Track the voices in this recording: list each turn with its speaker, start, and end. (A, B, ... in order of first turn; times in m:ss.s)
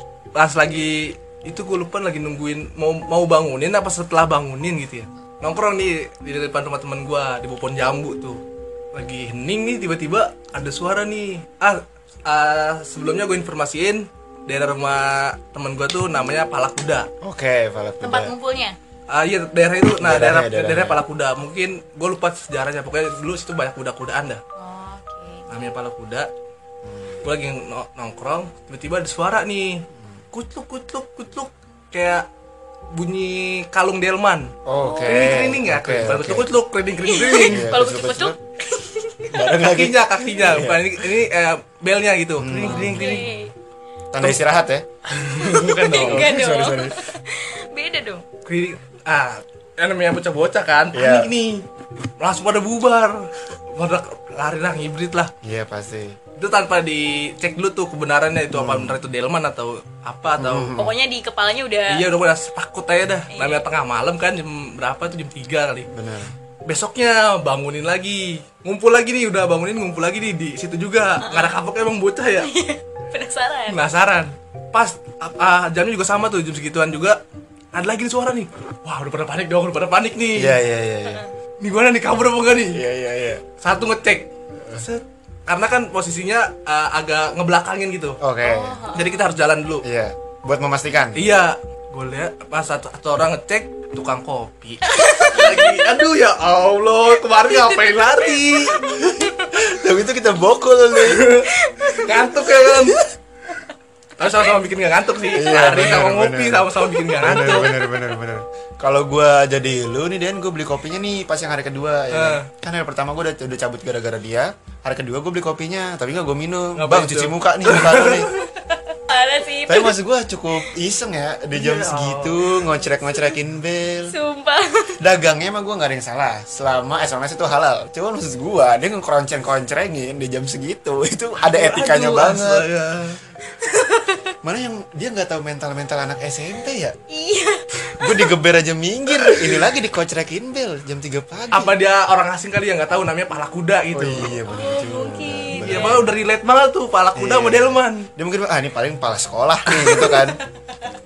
0:00.3-0:08.4 A
0:08.9-0:17.1 A
0:17.2-0:18.3 B
0:18.0-0:18.8 C
0:19.1-0:24.4 A
0:20.0-0:21.0 B
0:24.6-0:25.5 C
0:25.5-0:26.3 A
0:26.8-0:27.2 B
0:27.2-0:32.3 A
0:32.9-0:37.7 A
0:34.6-0:36.5 B
0:34.8-0:35.5 C
0:37.0-0:39.4 C
0:37.4-0:38.4 B
0:39.3-0:41.0 B
0:39.5-0:43.3 A
0:42.4-0:43.3 B
0:42.6-0:43.5 C
0:44.1-0:45.0 B
0:45.1-0:46.8 A
0:45.3-0:48.2 C
0:45.5-0:47.0 B
0:48.4-0:51.6 A
0:50.9-0:51.3 B
0:52.2-0:55.3 A
0:55.4-0:56.2 B
0:56.4-1:00.7 A
0:58.5-0:59.0 B
1:00.4-1:00.9 B
1:00.7-1:02.0 C
1:01.9-1:05.9 A
1:03.3-1:03.6 C
1:05.9-1:06.3 B
1:06.6-1:12.5 A
1:11.2-1:11.5 C
1:12.4-1:13.8 C
1:13.7-1:17.2 A
1:17.7-1:20.6 A
1:20.3-1:21.2 B
1:21.0-1:21.3 C
1:21.6-1:22.8 A
1:22.7-1:23.4 B
1:23.6-1:28.2 A
1:28.2-1:28.8 B
1:28.4-1:29.3 C
1:28.9-1:29.8 A
1:29.8-1:31.2 B
1:31.1-1:38.8 A
1:34.8-1:35.8 C
1:39.0-1:41.4 B
1:41.0-1:43.0 A
1:41.5-1:42.5 C
1:44.2-1:47.8 A
1:45.3-1:58.3 B
1:52.1-1:52.5 A
1:56.8-1:58.4 A
1:58.4-2:00.0 C
1:59.6-2:04.2 B
2:01.5-2:02.5 A
2:04.0-2:05.0 C
2:05.0-2:12.7 B
2:11.4-2:13.2 A
2:13.6-2:14.4 C
2:14.4-2:17.0 B
2:17.1-2:18.3 C
2:18.0-2:21.8 B
2:21.5-2:24.4 A
2:23.9-2:26.1 B
2:24.4-2:26.0 C
2:25.5-2:28.1 A
2:27.1-2:30.4 B
2:29.8-2:30.2 A